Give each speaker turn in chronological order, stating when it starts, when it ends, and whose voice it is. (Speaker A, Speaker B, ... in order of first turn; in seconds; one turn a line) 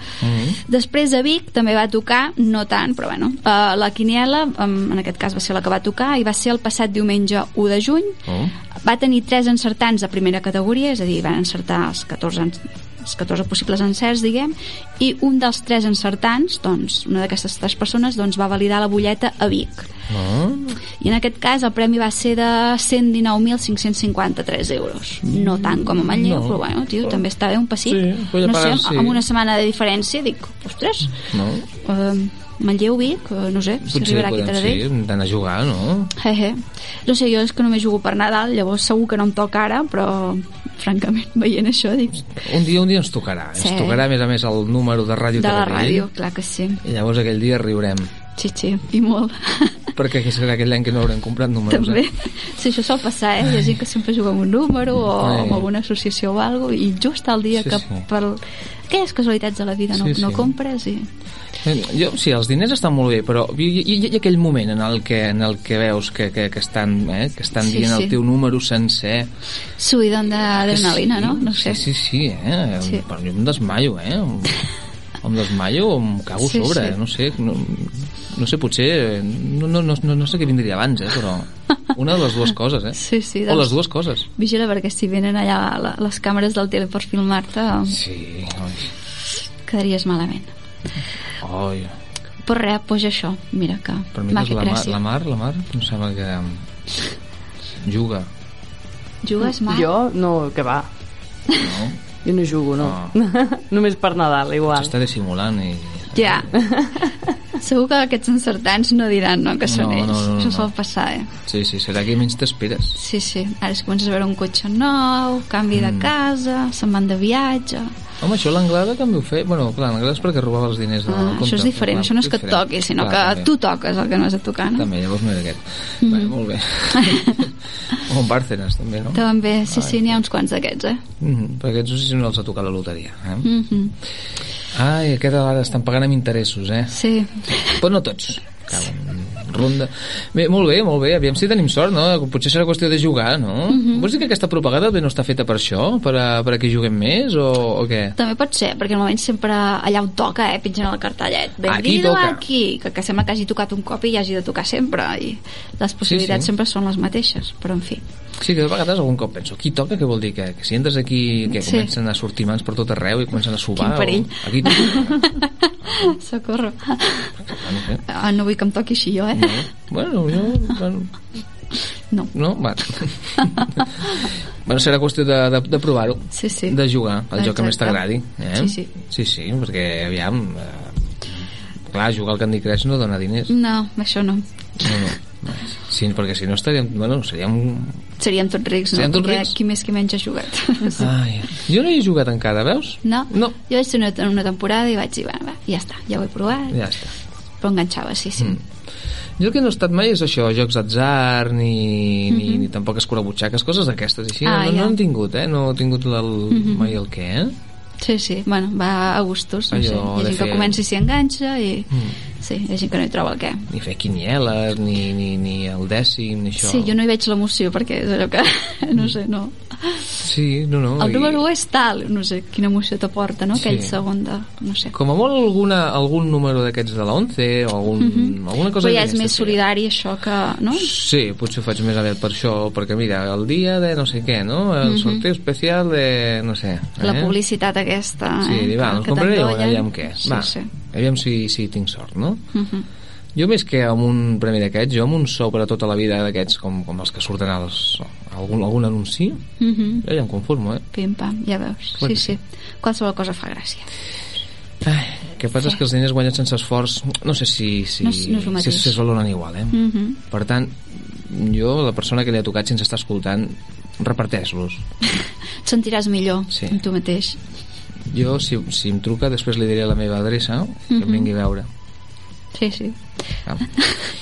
Speaker A: 0.2-0.6
Speaker B: 0.6-8.2
Speaker A: 8.3-8.5
Speaker B: 8.8-19.9
Speaker A: 20.1-20.8
Speaker B: 21.0-31.2
Speaker A: 25.2-27.2
Speaker A: 27.8-29.2
Speaker A: 31.3-31.6
Speaker B: 31.8-34.8
Speaker A: 33.8-36.1
Speaker B: 36.1-42.4
Speaker A: 42.3-46.1
Speaker B: 43.6-44.0
Speaker B: 45.4-46.8
Speaker A: 46.8-48.1
Speaker B: 48.4-49.8
Speaker A: 49.9-52.0
Speaker B: 51.7-61.1
Speaker A: 55.1-55.7
Speaker A: 57.5-58.0
Speaker A: 59.9-60.5
Speaker A: 61.6-69.3
Speaker B: 67.6-68.2
Speaker B: 69.8-71.8
Speaker A: 70.7-74.6
Speaker A: 75.2-84.3
Speaker B: 76.4-77.0
Speaker B: 82.9-83.8
Speaker B: 84.3-88.0
Speaker A: 87.9-88.9
Speaker B: 89.7-90.5
Speaker A: 91.4-91.9
Speaker B: 92.4-95.0
Speaker A: 94.1-96.6
Speaker A: 97.8-98.3
Speaker B: 99.2-99.9
Speaker C: 99.5-100.9
Speaker A: 101.6-102.0
Speaker C: 102.2-104.9
Speaker A: 102.8-103.1
Speaker A: 104.7-106.5
Speaker B: 106.1-106.5
Speaker C: 106.6-107.1
Speaker B: 107.6-111.3
Speaker A: 109.6-110.7
Speaker A: 111.5-113.0
Speaker B: 112.9-117.9
Speaker A: 115.7-116.1
Speaker A: 118.2-123.5
Speaker B: 121.1-124.9
Speaker A: 124.7-130.1
Speaker B: 126.0-126.3
Speaker B: 126.9-127.4
Speaker B: 129.1-131.0
Speaker A: 131.2-133.5
Speaker B: 133.4-133.9
Speaker A: 134.7-136.9
Speaker B: 136.9-137.8
Speaker A: 137.6-148.1
Speaker B: 143.7-144.1
Speaker B: 148.2-158.0
Speaker A: 151.7-152.4
Speaker A: 156.1-156.5
Speaker A: 158.4-165.3
Speaker B: 161.5-161.9
Speaker B: 163.8-167.3
Speaker A: 167.5-168.0
Speaker B: 168.1-169.6
Speaker A: 169.3-171.1
Speaker A: 172.3-173.8
Speaker B: 173.4-173.7
Speaker A: 174.6-181.1
Speaker B: 176.3-176.8
Speaker B: 177.3-178.9
Speaker A: 181.9-183.5
Speaker B: 183.5-185.1
Speaker A: 184.8-188.0
Speaker B: 188.2-191.1
Speaker A: 188.9-189.5
Speaker A: 190.9-193.6
Speaker B: 193.0-196.8
Speaker A: 196.7-197.1
Speaker B: 197.6-198.6
Speaker A: 199.4-207.5
Speaker B: 202.3-202.6
Speaker B: 204.4-205.0
Speaker B: 206.5-206.9
Speaker B: 208.0-213.7
Speaker A: 209.7-210.8
Speaker A: 213.7-216.9
Speaker B: 216.6-220.2
Speaker A: 220.2-221.4
Speaker B: 221.0-224.9
Speaker A: 223.5-224.0
Speaker A: 224.9-229.6
Speaker B: 228.0-230.9
Speaker A: 230.7-237.3
Speaker B: 234.8-235.2
Speaker B: 237.0-240.7
Speaker A: 238.4-242.4
Speaker B: 242.5-242.8
Speaker A: 243.3-249.5
Speaker B: 249.6-250.0
Speaker A: 250.0-250.8
Speaker B: 250.9-253.9
Speaker A: 252.0-252.4
Speaker A: 254.8-264.8
Speaker B: 258.0-259.0
Speaker B: 259.7-260.2
Speaker B: 265.6-267.4
Speaker A: 268.1-271.7
Speaker B: 270.9-271.3
Speaker B: 272.5-273.0
Speaker B: 273.6-274.1